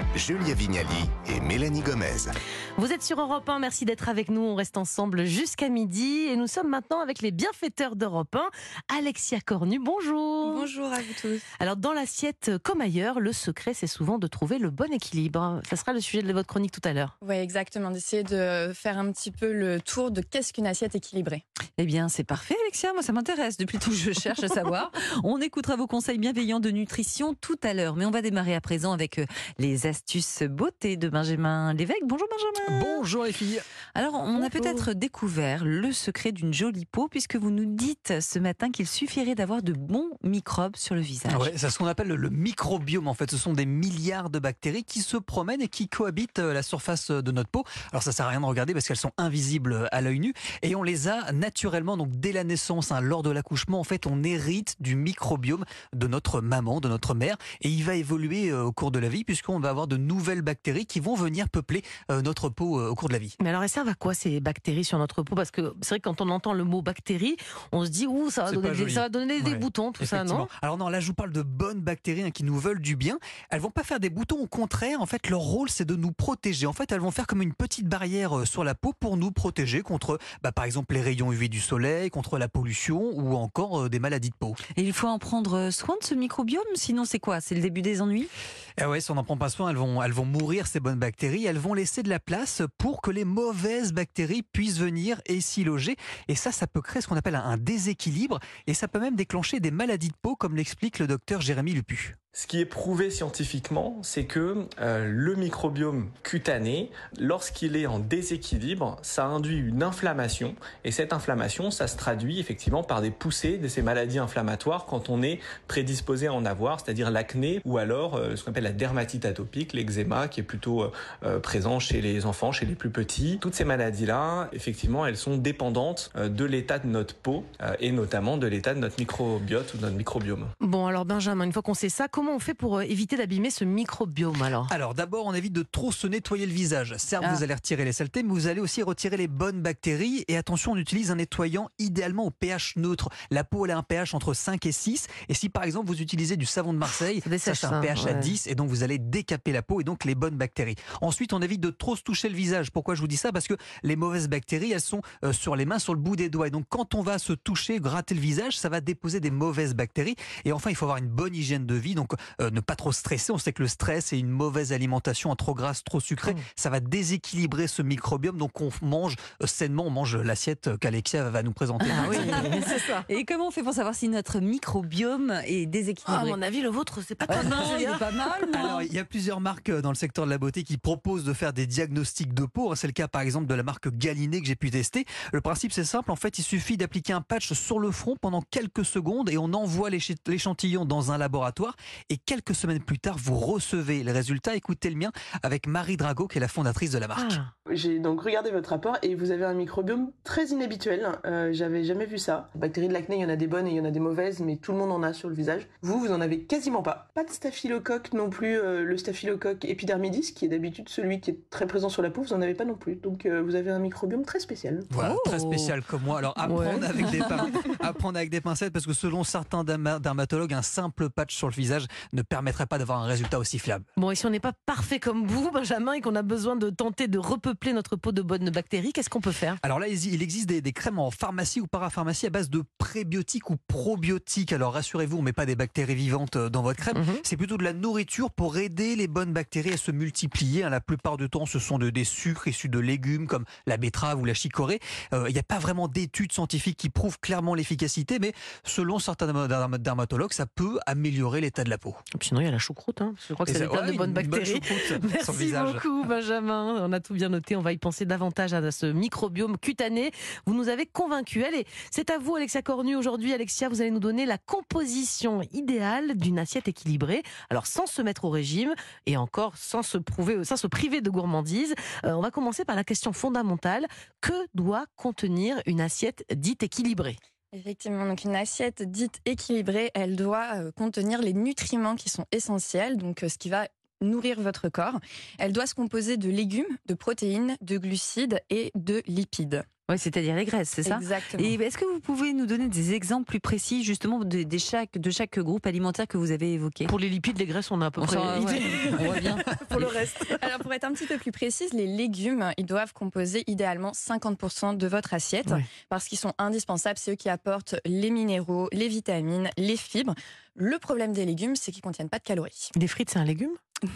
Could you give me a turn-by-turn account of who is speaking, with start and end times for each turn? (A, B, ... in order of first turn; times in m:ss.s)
0:00.1-0:02.3 A
0:02.8-0:10.7 B
0:10.4-0:11.4 C
0:11.6-0:17.1 B
0:17.2-0:21.4 D
0:21.8-0:33.1 C
0:32.7-0:33.6 E
0:33.9-0:41.5 C
0:34.4-0:34.8 E
0:41.3-1:03.4 E
1:03.4-1:10.5 B
1:08.5-1:24.6 E
1:24.7-1:28.3 C
1:28.8-1:42.2 E
1:42.3-2:10.5 F
2:10.6-2:14.7 B
2:14.7-2:52.5 E
2:27.2-2:28.3 B
2:51.8-2:56.4 C
2:51.9-2:53.0 B
2:56.0-2:58.7 B
2:57.2-2:58.9 C
2:58.5-3:17.4 E
3:17.2-3:17.5 B
3:17.7-3:34.9 G
3:34.9-3:43.9 E
3:35.0-3:35.7 C
3:36.5-3:37.7 B
3:44.0-3:49.6 B
3:49.6-4:12.0 E
3:56.9-3:57.2 B
4:12.1-4:37.2 B
4:13.4-4:15.8 E
4:37.5-4:49.7 D
4:49.9-4:56.9 C
4:50.8-4:51.6 D
4:56.8-4:59.2 B
4:58.0-4:59.9 C
4:58.8-4:59.4 E
4:59.6-5:12.7 D
5:12.7-5:13.6 B